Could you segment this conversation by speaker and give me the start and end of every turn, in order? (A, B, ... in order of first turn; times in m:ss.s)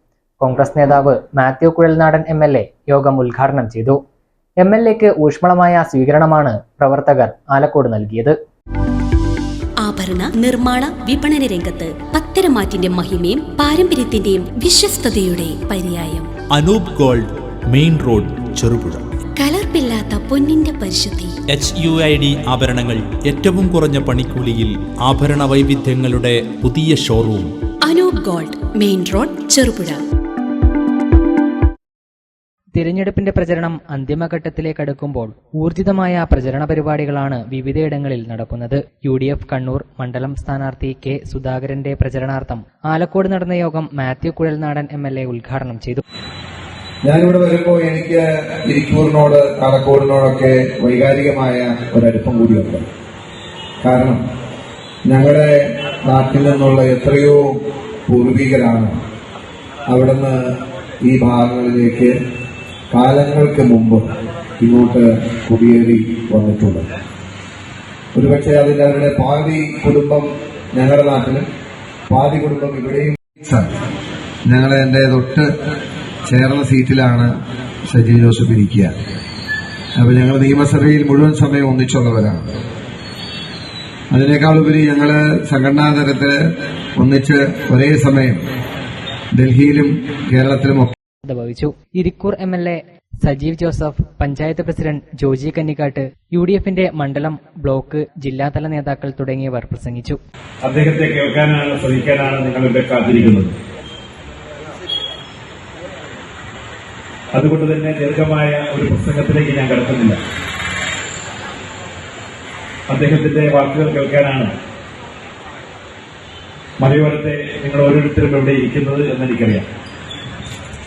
0:00.4-0:04.0 A
0:04.6-0:08.4 A
0:09.8-0:16.3 B
0:16.5-0:19.0 C
0:19.4-0:21.4 B
0:21.5-0:27.5 C
0:27.8-0:30.0 B
0:32.8-0:46.0 A
0:47.0-0:52.9 D
0:53.8-0:54.2 D
0:55.1-0:55.5 D
0:56.1-0:59.0 D
0:59.9-1:00.4 D
1:01.0-1:02.1 D
1:02.9-1:04.0 D
1:04.6-1:06.9 D
1:08.2-1:11.4 D
1:12.1-1:13.7 D
1:14.5-1:15.5 D
1:16.3-1:17.3 D
1:17.9-1:19.0 D
1:20.0-1:22.5 D
1:24.1-1:26.4 D
1:27.0-1:28.4 D
1:29.3-1:30.9 D
1:31.2-1:40.2 A
1:40.7-1:43.5 E
1:47.4-1:50.2 E
1:52.9-1:54.5 E
1:56.8-1:59.7 E